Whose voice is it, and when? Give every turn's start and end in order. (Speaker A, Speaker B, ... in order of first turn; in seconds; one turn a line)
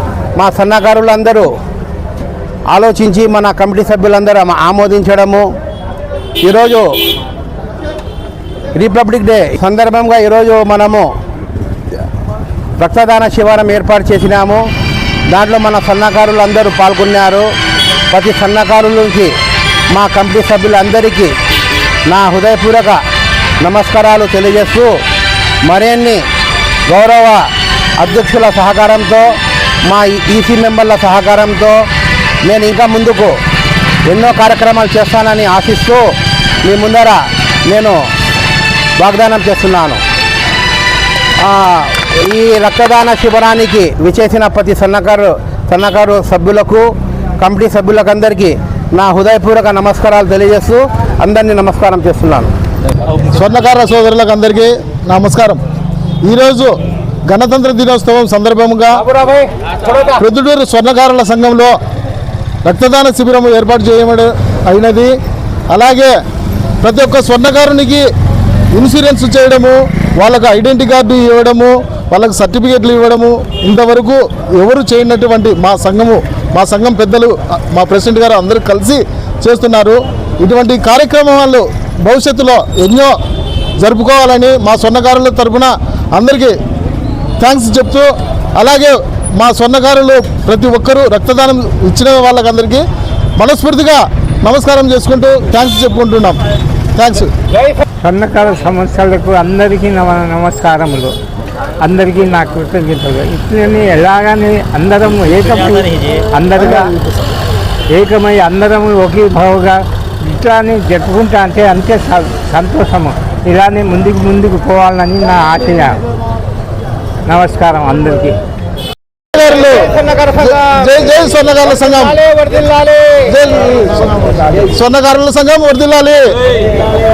Speaker A: 0.4-1.5
Speaker A: 2.7-5.5
Speaker A: 6.4-6.9
Speaker A: 8.8-11.1
Speaker A: 12.8-14.6
Speaker A: 15.3-17.5
Speaker A: 18.1-19.3
Speaker A: 19.9-21.3
Speaker A: 22.1-23.0
Speaker A: 23.6-24.9
Speaker A: 25.6-26.2
Speaker A: 26.9-31.8
Speaker A: 32.5-33.4
Speaker A: 34.1-36.1
Speaker A: 36.6-38.0
Speaker A: 39.0-40.0
Speaker A: 41.4-52.5
Speaker B: 53.2-55.6
Speaker B: 56.2-59.0
Speaker A: 58.9-60.2
Speaker B: 60.2-61.8
Speaker B: 62.6-65.1
Speaker B: 65.7-66.2
Speaker B: 66.8-68.1
Speaker B: 68.7-83.2
Speaker B: 83.8-86.6
Speaker B: 87.4-96.4
Speaker B: 97.0-97.3
Speaker A: 97.5-97.8
Speaker C: 98.0-101.2
Speaker C: 101.8-106.9
Speaker C: 107.9-116.0
Speaker C: 117.2-118.4
Speaker B: 119.3-119.6
Speaker A: 119.4-123.3
Speaker B: 120.5-122.2
Speaker B: 123.3-126.4